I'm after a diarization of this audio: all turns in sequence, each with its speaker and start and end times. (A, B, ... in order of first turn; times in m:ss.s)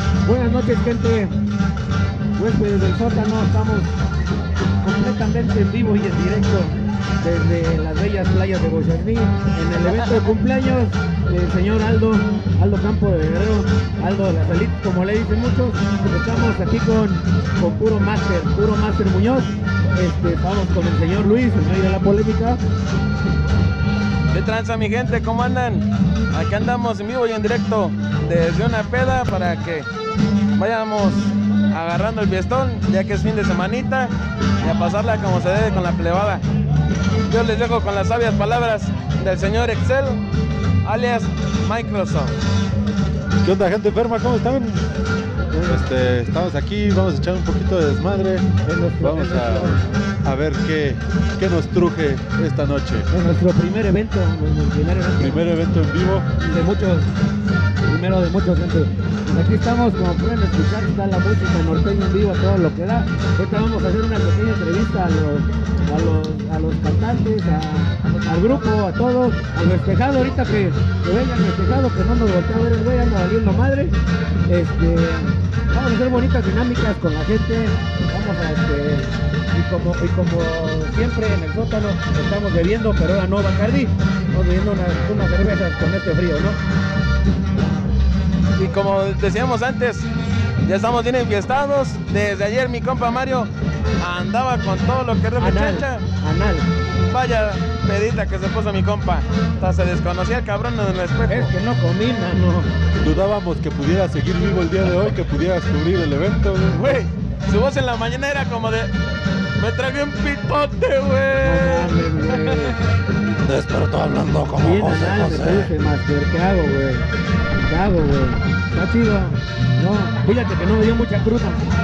0:00.2-0:01.3 A
0:02.4-0:03.9 A
0:04.8-0:22.6 A
0:24.3-0:29.9 B
0:30.6-0:36.4 B
0:37.3-0:40.2 B
0:40.8-0:42.4 B
0:43.4-0:44.8 C
0:45.5-0:45.8 A
0:45.6-0:48.5 C
0:48.6-0:49.8 A
0:49.0-0:53.1 C
0:53.1-0:55.4 A
0:55.2-0:56.3 C
0:56.4-0:57.1 A
0:57.8-1:14.0 A
1:14.5-1:26.6 A
1:28.6-1:30.1 B
1:30.6-1:36.0 B
1:35.4-1:36.7 A
1:37.0-1:41.5 B
1:41.3-1:42.7 A
1:43.0-1:47.0 C
1:46.7-1:48.9 B
1:49.6-1:52.8 B
1:51.4-1:52.8 A
1:53.4-1:55.7 C
1:54.6-1:57.1 A
1:57.6-2:01.6 A